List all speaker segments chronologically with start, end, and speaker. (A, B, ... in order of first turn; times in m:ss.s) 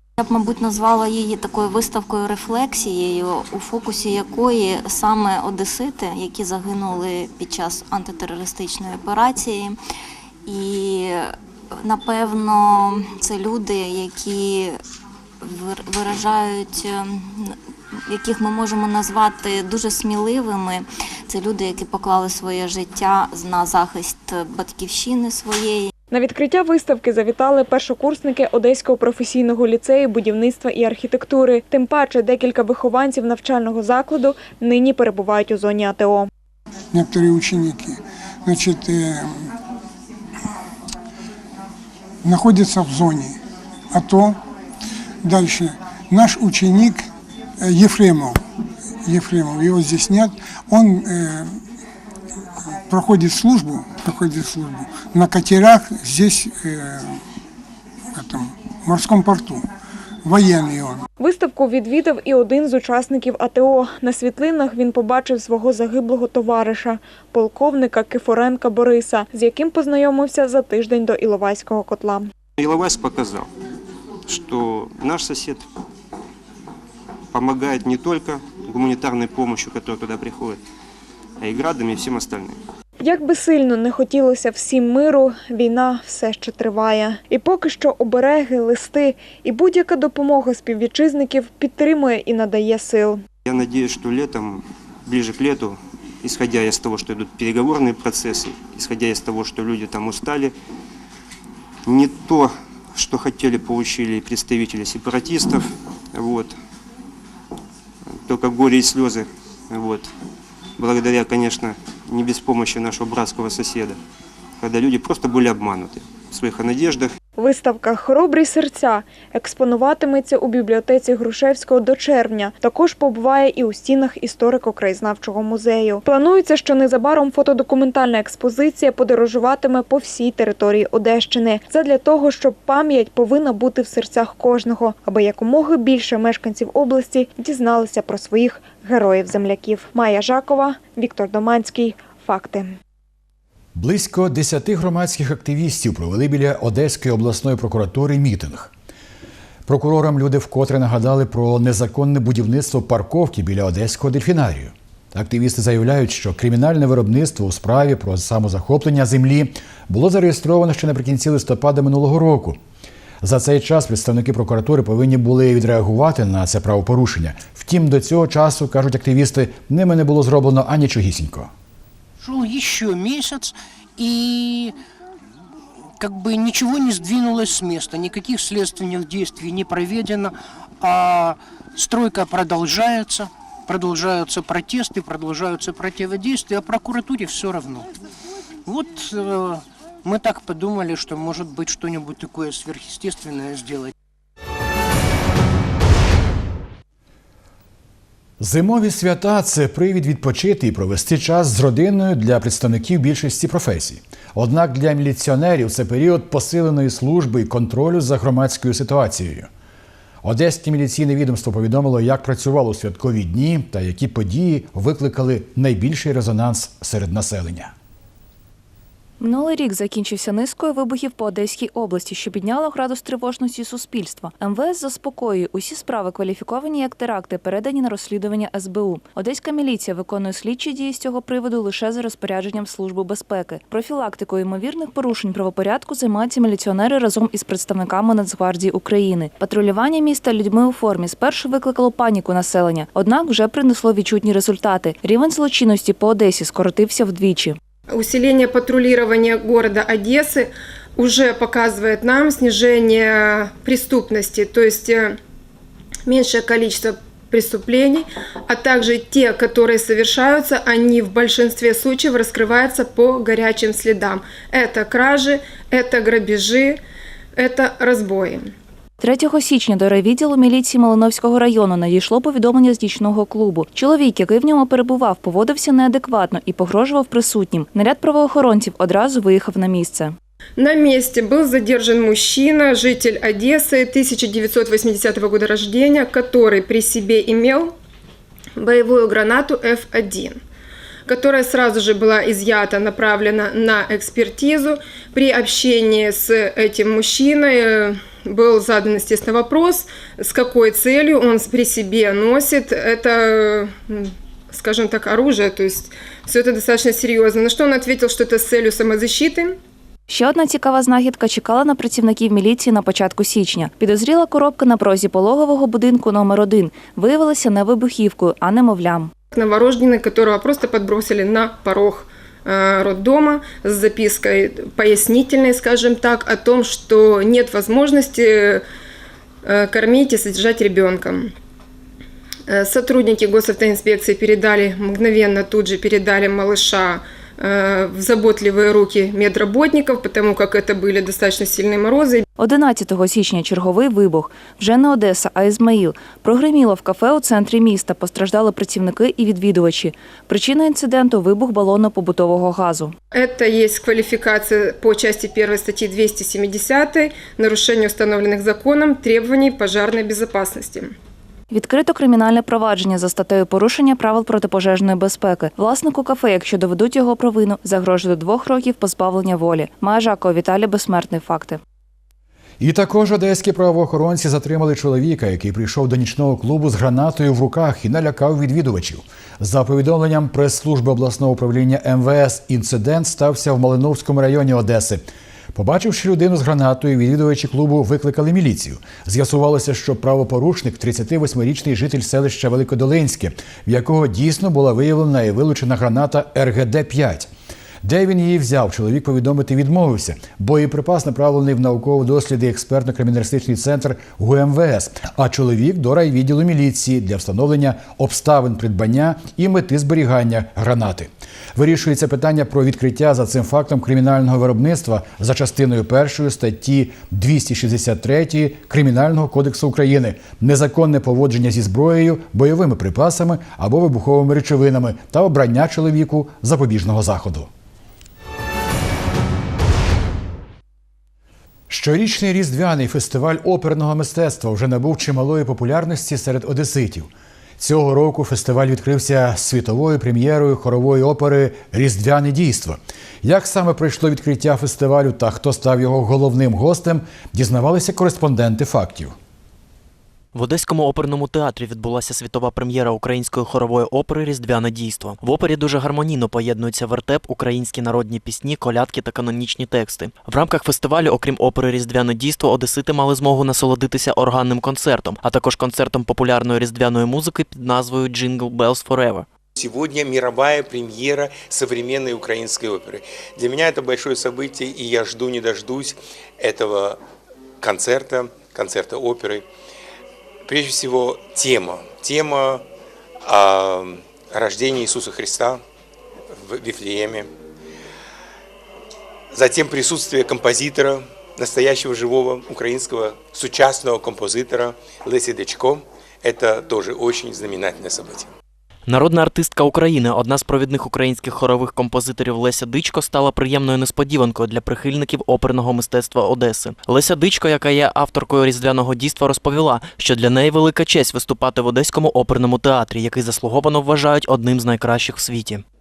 0:00.2-0:09.8 A
0:10.5-0:14.8 A
0:15.4-0:17.6 A
0:18.1-0:25.9 A
0:26.1-0:36.3 B
0:36.9-0:39.4 C
0:42.2-0:43.4 C
0:43.9-0:44.4 C
0:45.2-0:47.1 C
0:47.6-0:48.4 C
0:49.0-0:51.5 C
0:52.7-0:57.2 C
0:58.2-0:59.6 C
1:00.2-1:01.0 C
1:01.2-1:12.3 B
1:12.6-1:13.4 D
1:14.3-1:15.6 D
1:17.3-1:20.6 D
1:21.4-1:22.5 D
1:23.0-1:33.2 B
1:33.5-1:40.5 D
1:41.9-1:45.6 D
1:46.2-1:46.5 D
1:48.3-1:50.0 D
1:50.8-1:53.9 D
1:54.6-1:57.0 D
1:57.4-2:22.7 B
2:23.8-2:28.7 E
2:29.7-2:42.6 E
2:43.2-2:51.5 E
2:52.2-2:54.7 F
2:56.0-3:07.9 F
3:08.7-3:13.9 F
3:18.4-3:29.5 E
3:30.2-3:37.7 E
3:39.2-4:07.6 G
4:07.9-4:15.2 H
4:16.1-4:26.8 H
4:27.4-4:28.5 H
4:29.0-4:40.2 G
4:40.6-4:47.7 H
4:48.6-4:50.4 H
4:51.1-5:09.6 H
5:10.1-5:19.1 G
5:19.3-5:28.6 H
5:29.4-5:31.3 H
5:32.5-5:42.2 H
5:42.4-5:53.0 G
5:53.1-6:00.9 H
6:01.5-6:11.6 G
6:12.6-6:37.3 E
6:37.8-7:07.5 E
7:11.7-7:29.2 E
7:30.3-7:49.3 I
7:49.6-7:57.0 J
7:57.6-7:59.5 J
8:00.5-8:02.6 J
8:03.2-8:05.6 J
8:06.3-8:07.3 J
8:09.3-8:18.3 J
8:18.9-8:35.6 I